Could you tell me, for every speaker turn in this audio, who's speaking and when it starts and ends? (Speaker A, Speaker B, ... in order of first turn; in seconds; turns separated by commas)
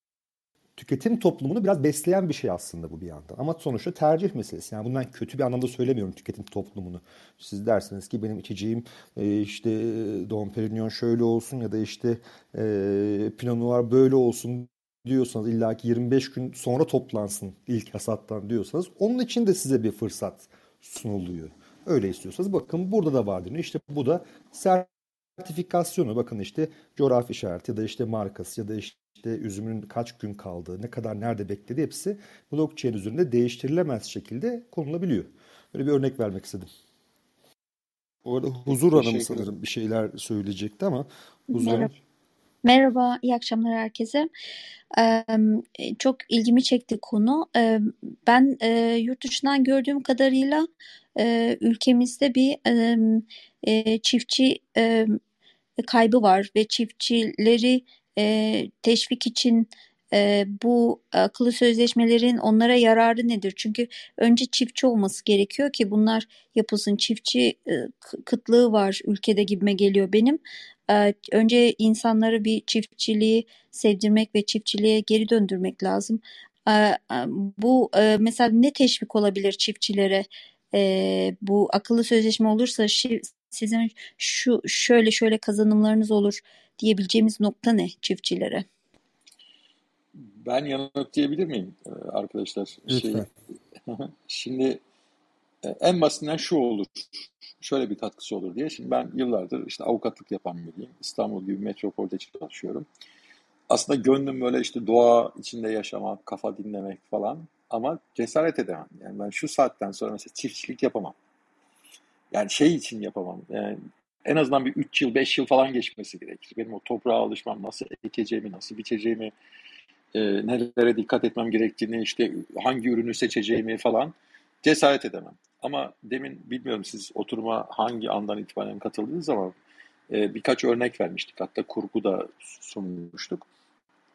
Speaker A: 0.8-36.7, Speaker A: 38.2-41.9, Speaker B: 38.7-39.5, Speaker C: 41.5-41.9, Speaker C: 42.6-44.3, Speaker C: 44.9-55.2, Speaker C: 55.8-88.6, Speaker B: 90.2-93.3, Speaker A: 92.9-93.3, Speaker B: 93.9-94.8, Speaker B: 95.6-102.9, Speaker B: 103.7-111.1, Speaker B: 112.3-119.3, Speaker B: 120.1-129.5, Speaker B: 130.1-133.4